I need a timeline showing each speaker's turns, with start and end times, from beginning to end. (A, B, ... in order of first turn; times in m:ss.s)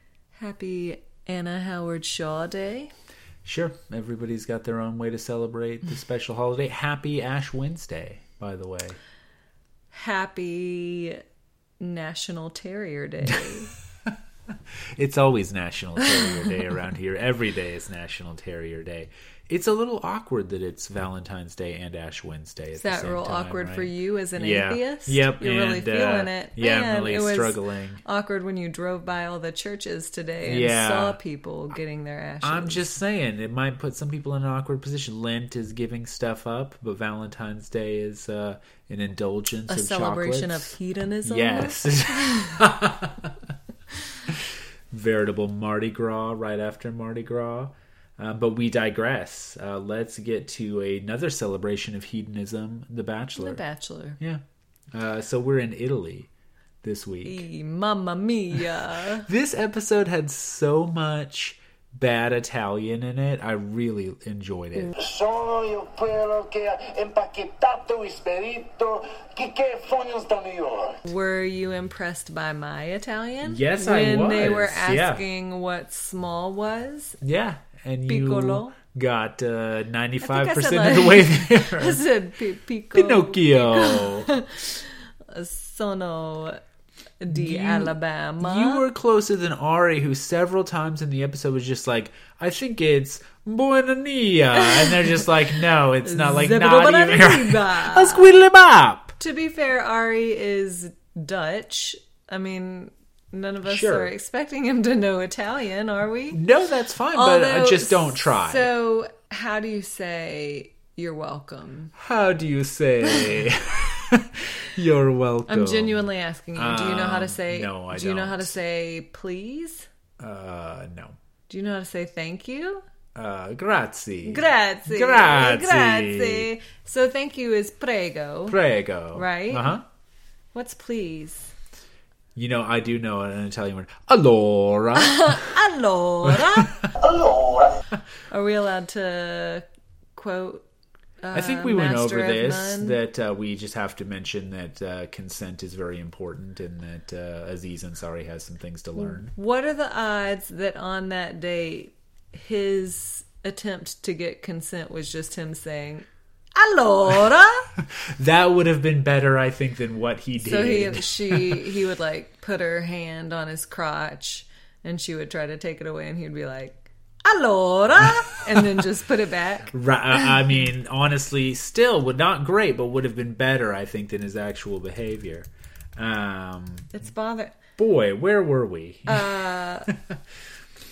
0:00.4-0:02.9 A
0:03.4-0:09.0 B
0:09.9-0:11.2 A
0:11.8-0:13.7 A
0:15.0-0:28.0 B
0:22.8-0:32.8 A
0:30.4-0:31.2 B
0:32.4-0:40.8 B
0:39.7-0:42.7 A
0:41.3-0:43.5 B
0:44.3-0:53.6 B
0:53.4-0:54.2 A
0:54.2-0:56.3 B
0:56.8-0:57.4 B
0:57.2-0:59.3 A
0:59.2-1:04.9 B
1:04.9-1:11.0 C
1:11.0-1:17.2 A
1:13.4-1:15.2 B
1:17.2-1:22.0 B
1:18.1-1:18.8 A
1:20.2-1:26.6 A
1:22.9-1:24.3 B
1:27.2-1:28.8 A
1:27.3-1:39.2 B
1:34.6-1:35.3 A
1:36.0-1:38.3 A
1:39.2-1:46.4 A
1:43.6-1:44.1 B
1:46.3-1:48.7 B
1:47.2-1:51.9 A
1:52.0-1:58.6 B
1:53.1-1:53.4 A
1:55.5-1:59.9 A
2:00.2-2:01.2 B
2:01.5-2:02.8 A
2:03.2-2:06.5 B
2:04.2-2:08.6 A
2:08.5-2:09.8 B
2:09.1-2:09.8 A
2:10.5-2:11.5 A
2:12.4-2:15.6 B
2:15.0-2:16.8 A
2:16.2-2:16.9 B
2:17.0-2:17.7 C
2:18.3-2:20.6 A
2:21.2-2:23.0 A
2:21.3-2:29.3 B
2:29.0-2:37.7 A
2:37.8-2:41.7 B
2:40.4-2:49.7 A
2:48.6-2:48.8 B
2:49.7-2:56.9 B
2:56.9-2:57.6 A
2:57.8-2:59.3 B
2:59.1-2:59.9 A
2:59.9-3:00.2 B